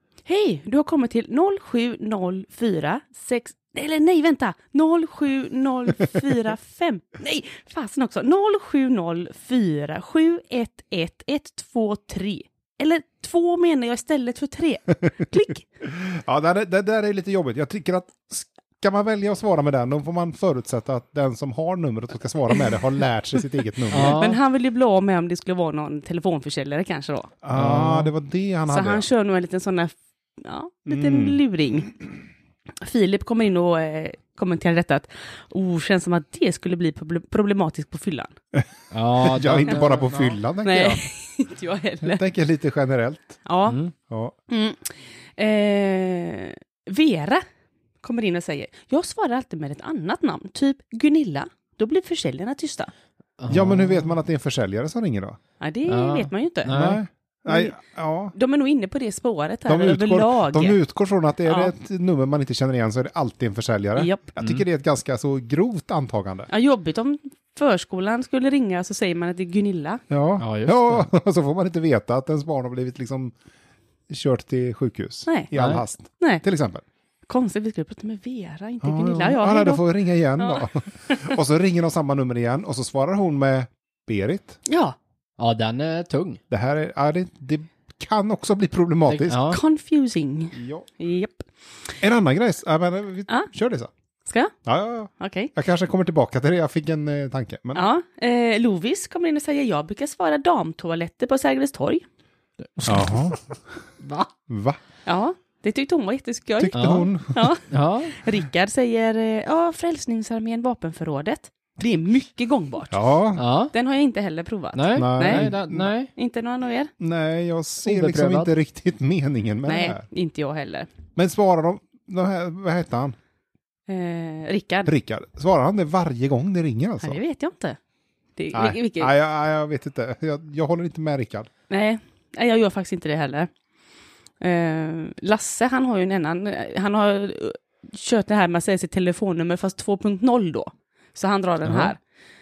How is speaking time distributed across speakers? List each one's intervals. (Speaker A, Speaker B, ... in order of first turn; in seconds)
Speaker A: 0.2-15.6, 23.9-27.3, 28.7-31.9, 32.8-38.3, 40.6-42.2, 43.5-43.8, 44.5-47.4, 48.0-52.9, 55.6-56.7, 57.5-57.8, 58.3-60.8, 61.5-61.7, 64.0-64.3, 66.5-70.0, 76.2-76.4, 77.3-79.8, 80.4-81.4, 84.7-85.0, 89.5-91.5, 94.3-94.5, 95.2-95.5, 97.7-102.0, 105.0-113.0, 113.7-115.5, 116.1-116.9, 119.7-120.9, 123.9-124.9, 127.0-127.8, 128.4-129.1, 131.7-133.5, 134.4-142.0
Speaker B: 15.8-24.2, 27.4-29.1, 30.9-31.4, 39.2-41.0, 42.0-43.4, 44.1-44.3, 53.5-55.4, 56.7-58.3, 59.7-66.5, 70.1-73.3, 74.1-76.8, 78.8-84.6, 86.5-89.4, 90.5-90.9, 92.0-93.9, 94.7-97.9, 102.8-103.4, 104.5-104.8, 106.6-107.5, 112.9-113.4, 114.9-115.9, 117.0-120.0, 121.1-123.1, 124.8-127.2, 128.5-131.5
Speaker C: 23.9-24.4, 27.5-28.1, 38.9-40.4, 43.6-43.9, 53.4-54.1, 55.9-57.0, 70.4-71.1, 75.5-75.8, 85.4-86.4, 89.0-89.6, 102.8-103.3, 104.0-104.3, 106.7-107.0, 107.7-108.2, 113.3-113.7, 114.7-116.1, 117.8-118.5